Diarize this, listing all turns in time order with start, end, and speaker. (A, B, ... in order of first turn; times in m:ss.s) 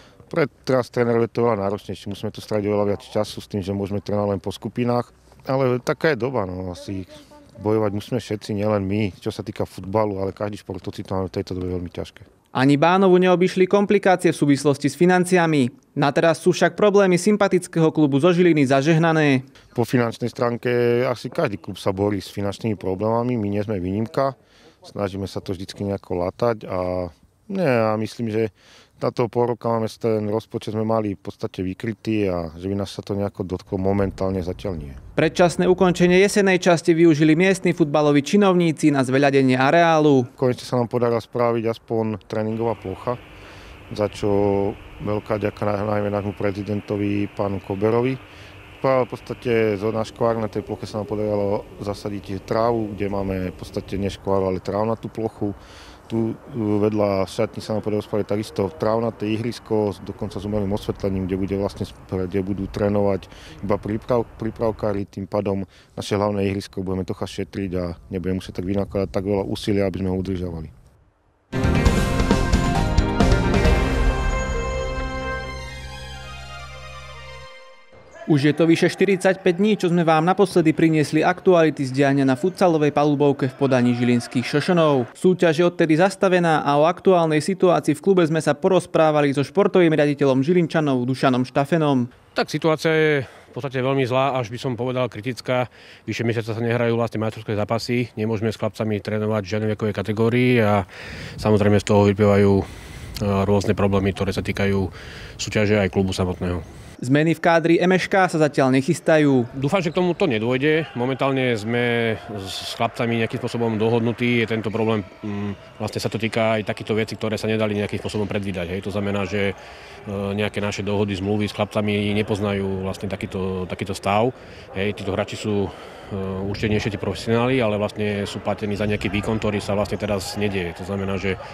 0:00.3-0:12.2 A
0:12.5-0:19.4 B
0:19.8-0:35.0 A
0:35.2-0:40.3 B
0:40.4-0:43.2 A
0:43.9-0:48.2 A
0:48.8-1:10.7 A
1:18.3-1:32.1 B
1:32.3-1:40.9 C
1:41.4-1:42.6 C
1:43.2-1:46.6 C
1:47.0-1:49.5 B
1:49.6-1:59.6 C
2:00.1-2:11.4 C